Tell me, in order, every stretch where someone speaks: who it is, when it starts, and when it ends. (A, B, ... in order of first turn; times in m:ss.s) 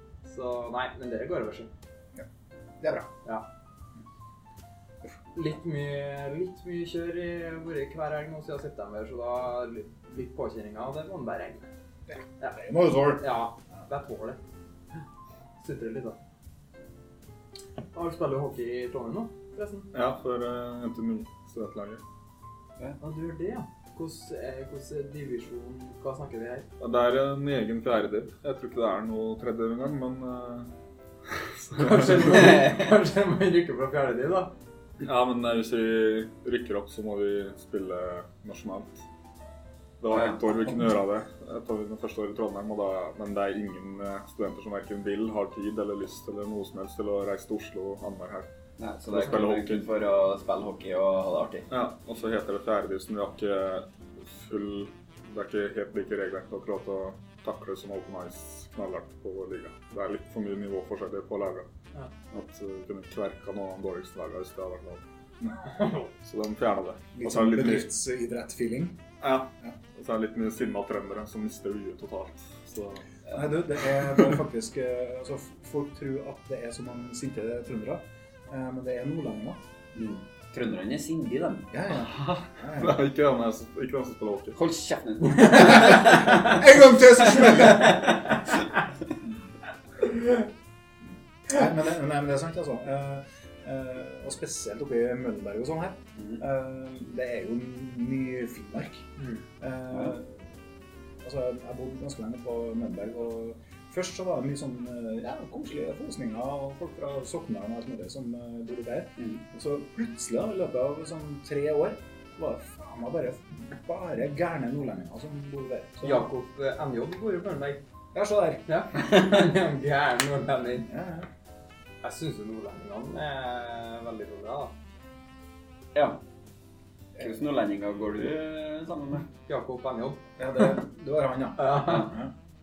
0:00.2-0:01.7 A
0:02.8-0:03.1 B
0:05.3-0:11.7 A
0:12.1-0:13.3 B
0:13.2-0:14.4 A
0:15.6-0:16.2 A
0:17.9-0:19.9 A
0:19.9-0:22.0 C
0:23.0-0:26.7 A
0:26.8-0:30.7 C
0:31.3-0:32.6 C
0:31.8-0:34.5 A
0:32.5-0:32.7 D
0:35.0-0:39.0 C
0:40.0-0:48.5 C
0:40.1-0:40.7 D
0:48.8-0:51.7 D
0:49.1-0:49.8 C
0:51.7-1:01.7 C
1:02.3-1:05.0 C
1:05.8-1:06.0 A
1:06.2-1:07.9 C
1:07.2-1:09.0 B
1:09.2-1:13.0 C
1:13.3-1:19.6 B
1:20.0-1:21.7 D
1:21.7-1:23.0 B
1:22.1-1:24.6 C
1:24.6-1:26.7 D
1:25.5-1:28.2 B
1:27.4-1:28.4 D
1:31.4-1:40.4 B
1:41.2-1:56.3 B
1:56.0-1:57.8 A
1:58.1-1:58.6 B
1:58.7-2:00.9 A
2:00.9-2:01.3 B
2:02.0-2:04.7 A
2:05.9-2:06.2 D
2:07.2-2:09.3 D
2:09.5-2:10.2 A
2:10.4-2:12.3 B
2:11.6-2:12.1 A